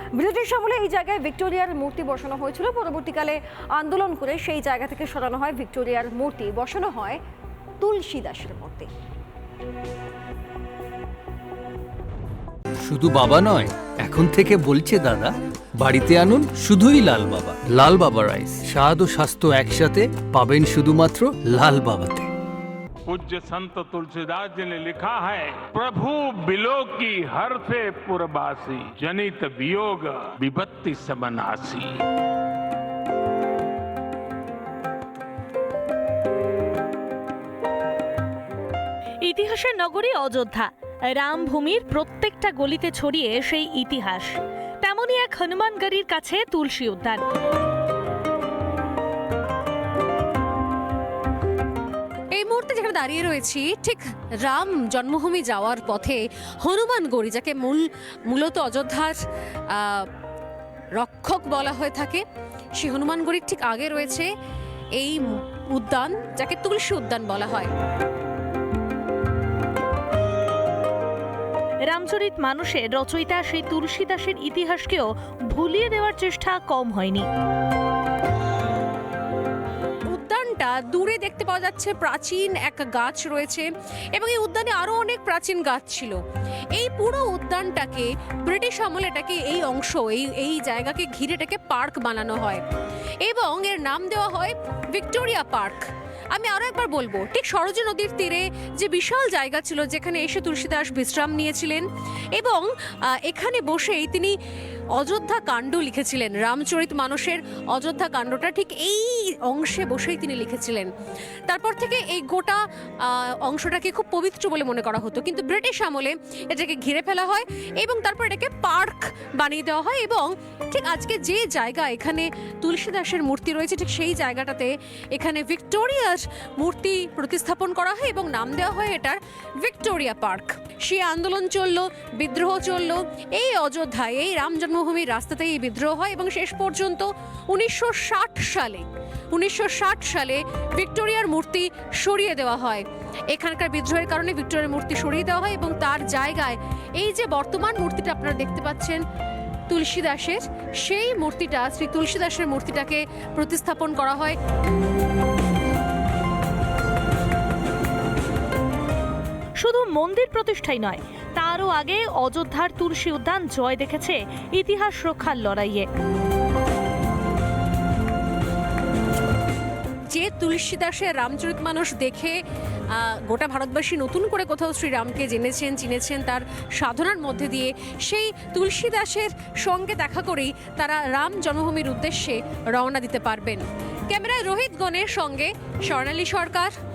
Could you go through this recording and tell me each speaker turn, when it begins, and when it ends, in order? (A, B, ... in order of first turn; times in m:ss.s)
0:00.1-0:07.2 A
0:07.8-0:08.9 A
0:12.8-0:22.3 B
0:23.1-0:32.0 C
0:39.2-0:47.2 D
0:52.3-0:59.2 E
0:59.7-1:00.1 E
1:00.9-1:02.2 E
1:02.8-1:04.3 E
1:05.0-1:07.7 E
1:11.9-1:17.2 D
1:20.1-1:26.2 E
1:26.7-1:32.6 E
1:33.2-1:35.8 E
1:36.3-1:44.4 E
1:45.0-1:50.9 E
1:51.5-2:29.0 E
2:29.7-2:34.4 E
2:39.6-2:45.9 D
2:50.1-2:52.4 E
2:52.9-3:06.7 E